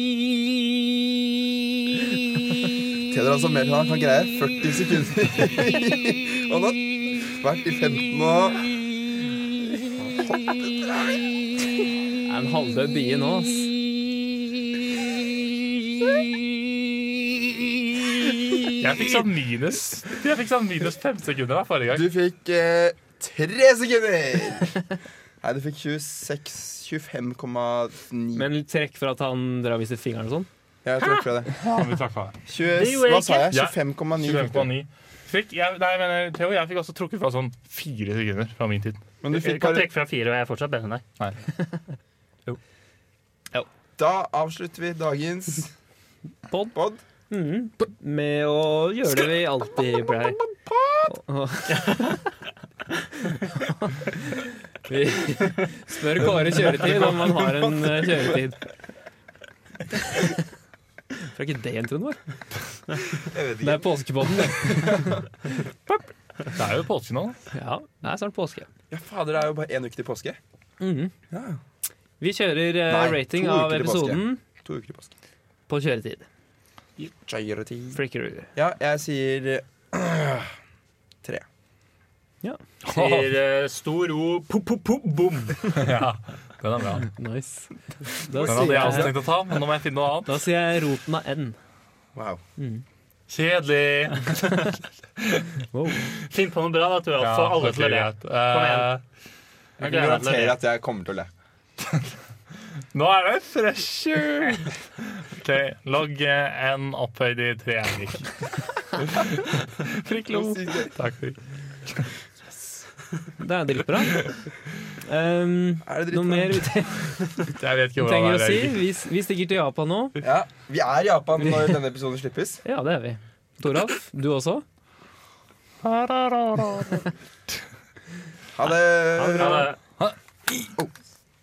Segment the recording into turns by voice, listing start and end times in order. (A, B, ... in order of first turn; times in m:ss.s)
0:03.1-0:08.7 A
0:10.0-0:11.4 A
0:12.3-0:13.8 B
0:18.7-0:22.1 C
0:21.9-0:24.8 A
0:25.4-0:28.5 A
0:28.3-0:30.5 B
0:30.8-0:31.5 A
0:31.0-0:31.2 D
0:31.6-0:32.4 C
0:32.5-0:34.7 A
0:32.7-0:33.5 D
0:33.5-0:39.0 C
0:39.2-0:39.9 A
0:39.3-0:41.0 D
0:44.0-0:45.7 A
0:46.7-0:47.0 A
0:47.3-0:50.4 B
0:49.8-0:51.2 A
0:51.1-0:52.3 B
0:53.3-0:58.6 B
0:56.5-0:57.4 C
1:01.2-1:02.2 B
1:03.2-1:05.2 A
1:03.6-1:05.2 B
1:06.5-1:07.4 C
1:07.5-1:08.7 B
1:08.9-1:10.4 A
1:10.8-1:11.1 B
1:11.3-1:11.6 A
1:12.2-1:14.4 B
1:12.9-1:15.1 A
1:15.7-1:16.3 B
1:17.2-1:18.0 A
1:18.0-1:18.5 B
1:18.6-1:20.5 A
1:22.8-1:23.3 C
1:22.9-1:25.8 D
1:25.7-1:27.1 C
1:26.9-1:29.2 B
1:28.4-1:30.4 C
1:28.6-1:29.0 A
1:30.3-1:31.6 B
1:32.2-1:32.4 A
1:32.6-1:32.8 B
1:33.3-1:35.5 C
1:35.7-1:36.1 B
1:36.3-1:38.9 D
1:37.2-1:39.0 C
1:39.8-1:40.6 D
1:39.8-1:41.3 A
1:42.9-1:51.4 C
1:50.3-1:50.9 A
1:53.4-1:54.3 B
1:55.1-2:00.2 B
1:55.8-1:56.7 A
1:57.4-1:58.9 C
2:00.2-2:02.6 A
2:02.6-2:04.6 B
2:05.8-2:07.1 C
2:08.6-2:09.7 A
2:09.2-2:09.8 D
2:10.0-2:10.8 C